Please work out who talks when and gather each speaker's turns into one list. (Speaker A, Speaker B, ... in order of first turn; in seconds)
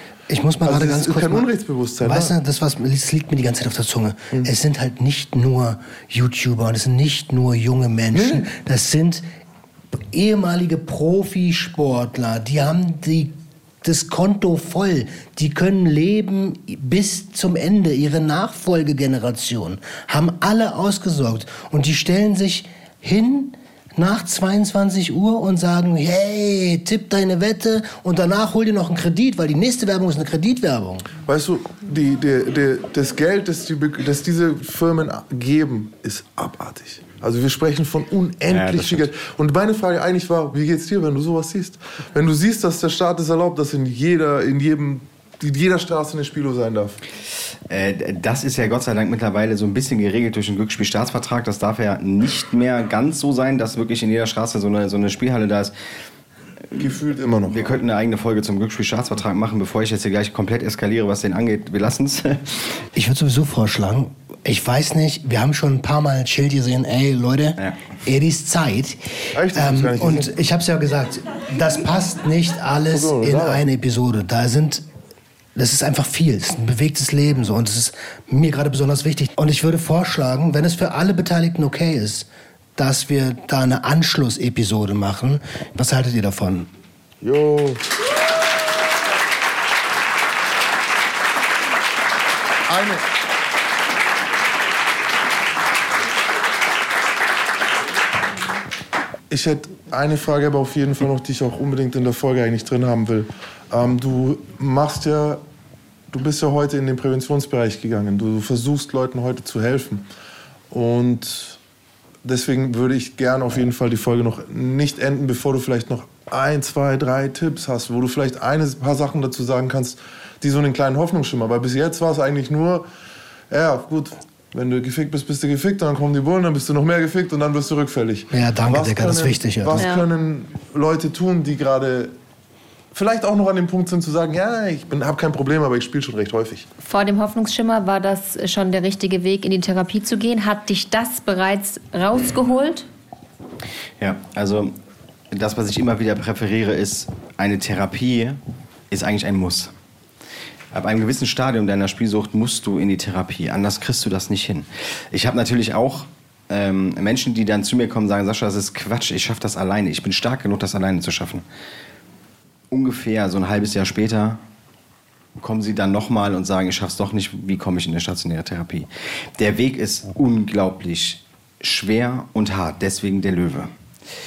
Speaker A: 0.3-1.5, 2.0-9.3, 9.9-31.1, 63.0-74.8, 75.5-86.7, 128.3-129.9
Speaker B: 0.7-2.3, 8.1-8.5, 31.3-47.0, 56.8-57.7, 69.3-70.3, 72.9-73.6, 87.2-87.8, 92.7-93.1, 99.3-105.4, 106.1-110.0, 110.7-111.6, 112.2-122.8, 123.5-132.1, 132.9-136.7
Speaker C: 38.5-39.1, 47.7-55.7, 57.5-62.6, 144.0-144.8, 145.3-148.4, 148.9-149.7, 150.7-161.4, 162.7-164.4, 165.4-173.7
Speaker D: 129.8-130.1, 136.8-142.9